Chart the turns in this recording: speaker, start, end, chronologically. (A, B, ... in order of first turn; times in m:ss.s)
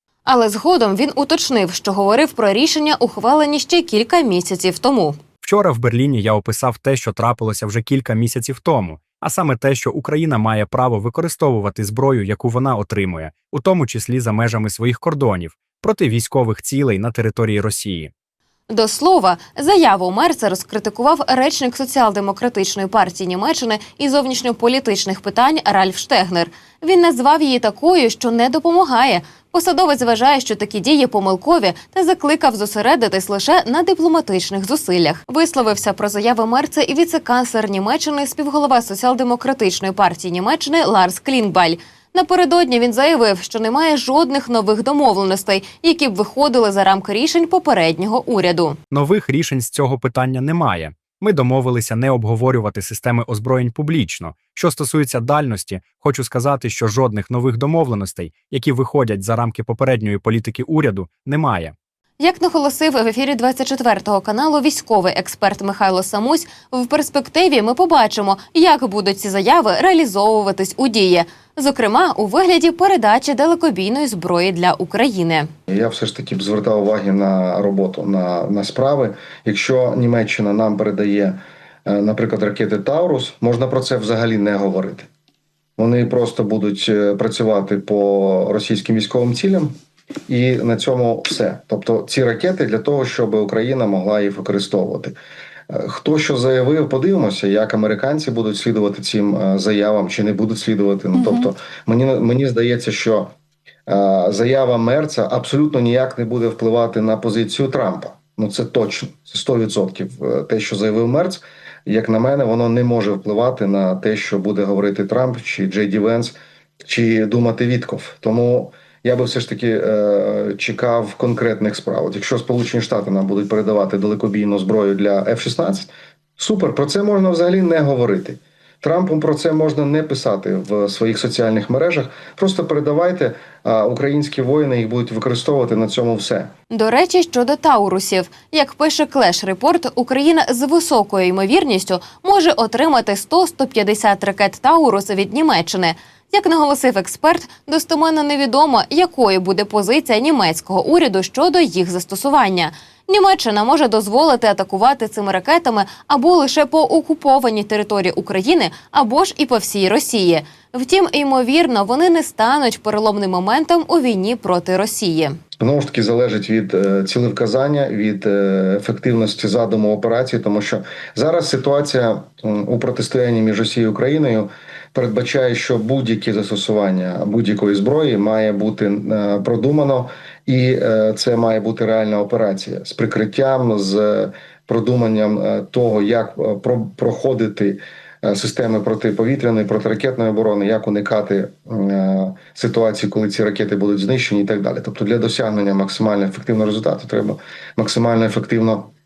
0:00.2-0:05.2 A
0:05.4-0:18.1 B
0:18.7-0:48.8 A
0:48.9-1:01.7 B
1:02.2-1:15.5 A
1:15.7-1:25.1 C
1:25.8-1:29.8 C
1:30.3-1:35.2 C
1:35.7-1:43.3 C
1:43.9-2:16.5 C
2:16.7-2:45.4 A
2:45.6-3:18.9 C